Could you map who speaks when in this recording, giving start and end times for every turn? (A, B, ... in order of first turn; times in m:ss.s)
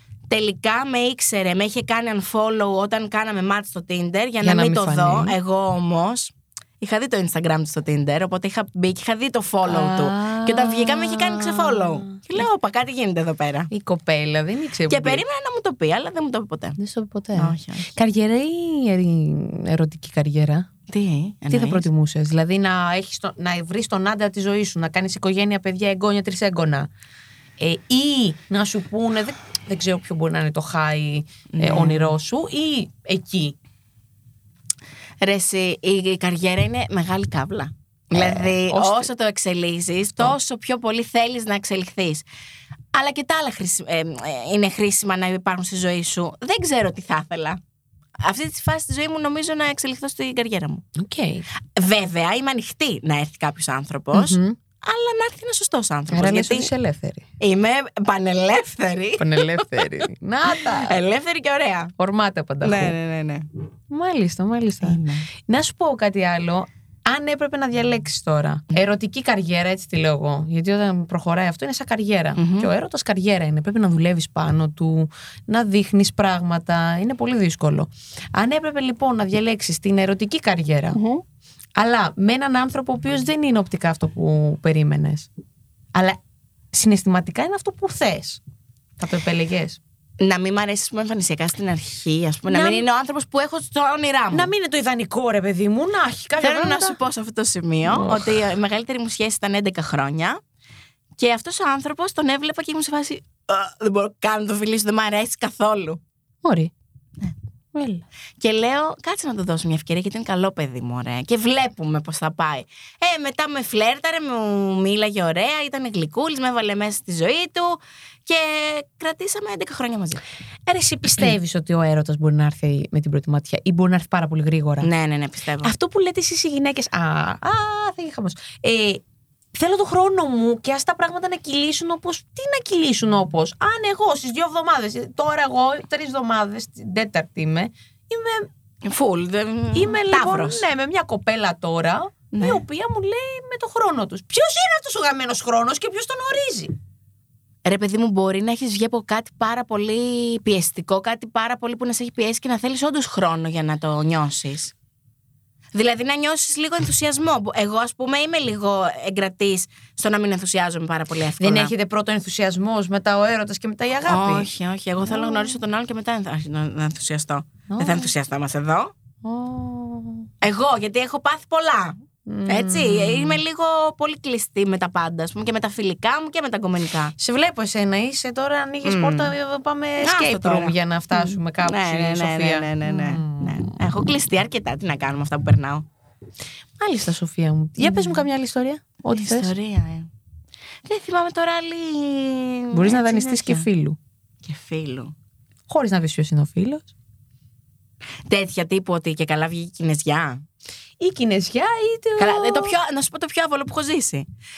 0:00.3-0:13.7 A
0:04.4-0:05.4 B
0:09.6-0:12.2 B
0:13.7-0:15.2 B
0:14.9-0:16.8 A
0:16.8-0:20.7 B
0:17.4-0:17.9 A
0:20.9-0:21.9 A
0:21.5-0:26.9 B
0:27.6-0:33.6 B
0:31.5-0:32.1 A
0:35.2-0:42.2 A
0:38.1-0:39.1 B
0:42.9-0:47.6 A
0:48.2-0:50.8 A
0:51.0-0:51.4 B
0:51.8-0:56.7 A
0:54.1-0:54.6 B
0:56.1-0:57.3 B
0:57.4-0:59.9 A
0:59.2-1:01.0 B
1:00.5-1:01.9 A
1:02.0-1:03.0 B
1:02.6-1:03.5 A
1:03.9-1:21.0 B
1:04.8-1:05.3 A
1:12.4-1:12.7 A
1:20.9-1:21.2 A
1:21.8-1:25.3 B
1:26.7-1:28.4 B
1:29.0-1:29.8 B
1:30.2-1:34.5 A
1:32.5-1:32.9 B
1:34.3-1:37.0 B
1:36.4-1:40.4 A
1:37.8-1:38.4 B
1:41.2-1:46.0 A
1:46.4-1:46.7 B
1:47.8-1:48.0 B
1:48.4-2:00.2 A
2:00.7-2:04.9 B
2:04.8-2:05.7 A
2:05.6-2:09.0 B
2:09.6-2:18.5 B
2:18.8-2:20.6 A
2:19.7-2:26.7 B
2:22.3-2:22.6 A
2:27.6-2:34.7 A
2:35.7-2:41.7 A
2:41.4-2:44.5 B
2:44.1-2:48.9 A
2:45.1-2:45.6 B
2:47.7-2:48.1 B
2:49.2-2:50.3 B
2:50.4-2:57.1 A
2:52.3-2:53.4 B
2:57.2-3:03.8 B
2:58.8-2:59.4 A
3:00.0-3:05.9 A
3:06.8-3:09.5 B
3:07.8-3:08.3 A
3:09.1-3:10.1 A
3:10.8-3:13.7 A
3:12.7-3:14.0 B
3:14.4-3:15.1 A
3:15.7-3:16.9 B
3:18.2-3:20.4 A
3:21.0-3:22.8 B
3:22.2-3:24.3 A